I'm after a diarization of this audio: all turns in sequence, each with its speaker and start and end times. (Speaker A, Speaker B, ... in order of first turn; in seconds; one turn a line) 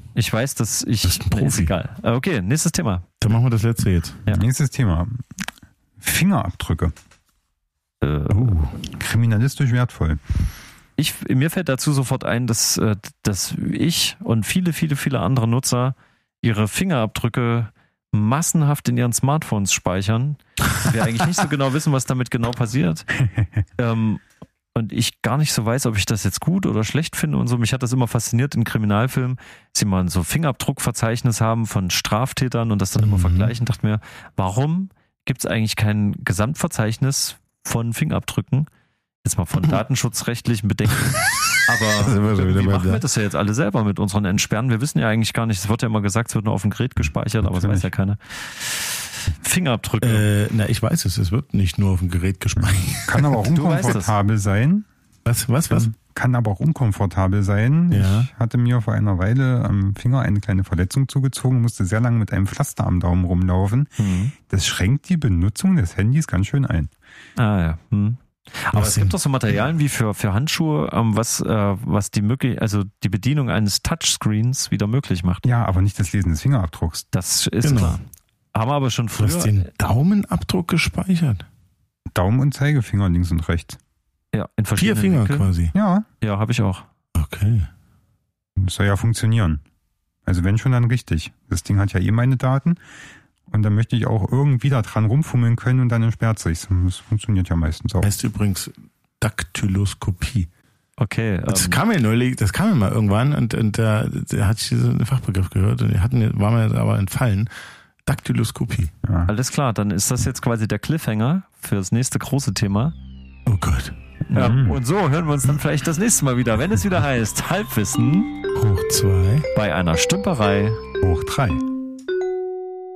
Speaker A: 0.1-3.0
Speaker B: 1.0-1.7
Speaker B: 3.2-4.2
Speaker C: 4.3-5.2
Speaker C: 6.0-6.9
Speaker A: 8.0-8.5
Speaker B: 8.3-8.8
Speaker C: 8.9-10.2
Speaker A: 11.0-23.1
Speaker A: 23.8-24.2
Speaker A: 24.7-38.7
Speaker B: 33.0-33.5
Speaker A: 39.2-50.2
Speaker B: 41.0-43.0
Speaker C: 47.4-47.9
Speaker B: 50.0-53.5
Speaker C: 52.6-54.9
Speaker A: 53.5-54.1
Speaker B: 55.2-55.9
Speaker C: 55.7-63.9
Speaker B: 57.9-58.3
Speaker A: 64.0-64.3
Speaker C: 64.5-66.9
Speaker A: 67.4-75.5
Speaker B: 68.7-69.2
Speaker C: 75.4-77.0
Speaker A: 77.1-78.0
Speaker B: 77.6-78.0
Speaker A: 78.5-79.7
Speaker B: 79.2-81.5
Speaker C: 82.1-83.8
Speaker A: 84.3-85.5
Speaker B: 84.8-85.7
Speaker C: 85.7-86.0
Speaker A: 86.2-86.8
Speaker B: 87.1-87.7
Speaker C: 88.6-89.6
Speaker C: 90.2-92.8
Speaker C: 93.5-98.1
Speaker B: 98.0-100.5
Speaker A: 101.0-101.8
Speaker B: 101.5-107.5
Speaker B: 108.0-108.9
Speaker C: 109.0-109.3
Speaker A: 109.3-112.9
Speaker B: 113.5-114.0
Speaker A: 114.3-118.3
Speaker C: 114.3-114.8
Speaker B: 118.5-119.5
Speaker A: 119.5-120.8
Speaker C: 121.0-121.6